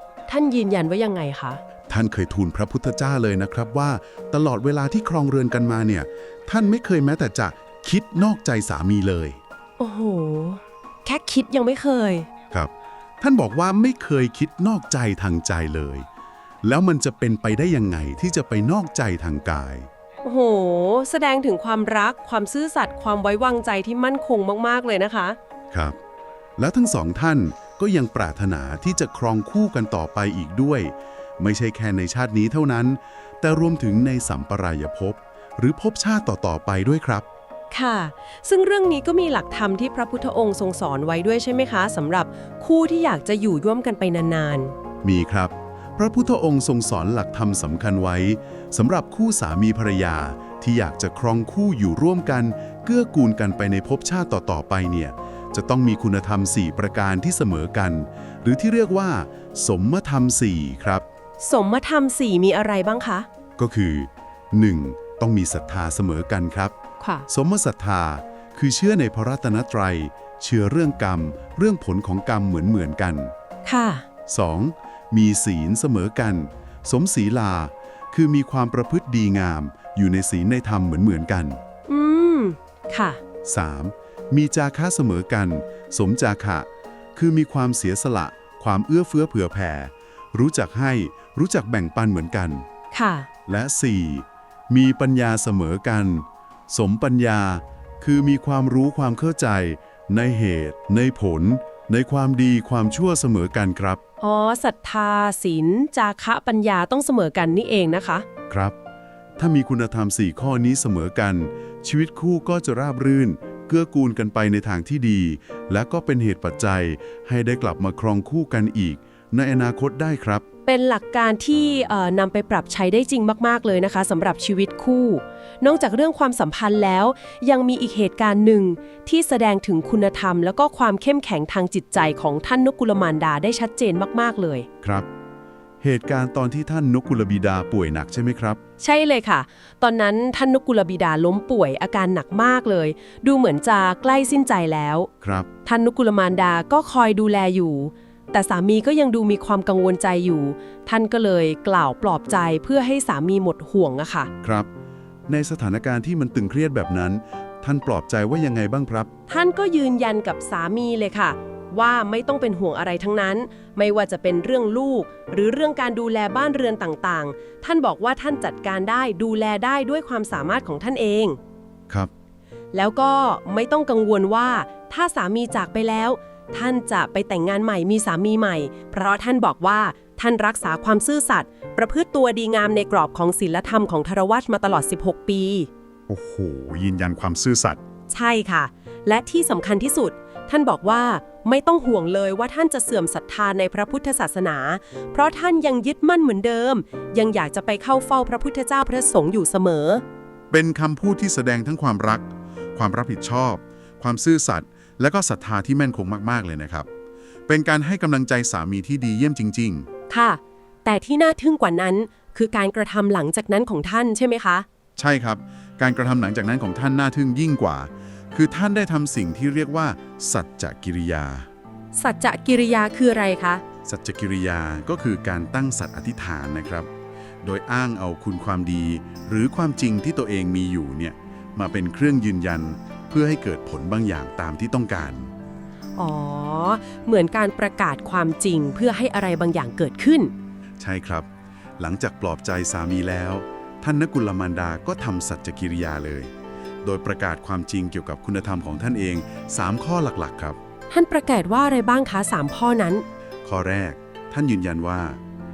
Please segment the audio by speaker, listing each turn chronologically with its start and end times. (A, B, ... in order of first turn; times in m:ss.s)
0:00.3-0:01.6 A
0:01.9-0:09.4 B
0:09.8-0:12.3 A
0:12.5-0:16.1 B
0:16.6-0:19.9 B
0:20.2-0:25.4 A
0:25.7-0:26.0 B
0:26.6-0:37.3 B
0:37.7-0:44.7 A
0:45.0-1:01.0 B
1:01.4-1:03.3 A
1:03.6-1:06.7 B
1:07.0-1:07.3 A
1:07.3-1:13.3 B
1:13.6-1:14.0 A
1:14.3-1:21.6 B
1:21.9-1:23.2 A
1:23.5-1:32.6 B
1:32.9-1:33.3 A
1:33.5-1:44.0 B
1:44.2-1:48.3 A
1:48.5-1:48.8 B
1:49.4-2:00.4 B
2:00.7-2:14.7 A
2:14.8-2:15.1 B
2:15.8-2:18.6 B
2:18.8-2:25.1 A
2:25.2-2:25.5 B
2:25.6-2:34.3 A
2:34.4-2:34.7 B
2:35.3-2:39.1 B
2:39.3-2:51.4 A
2:52.7-3:05.7 A
3:06.1-3:07.8 B
3:08.1-3:20.0 A
3:20.5-3:26.9 B
3:27.5-3:29.9 B
3:30.1-3:34.7 A
3:35.0-3:41.5 B
3:42.0-3:43.6 A
3:43.9-3:46.9 B
3:47.4-3:55.3 B
3:56.0-4:00.3 A
4:00.8-4:01.3 B
4:01.8-4:06.3 B
4:06.8-4:10.6 B
4:10.9-4:13.0 A
4:13.4-4:15.2 B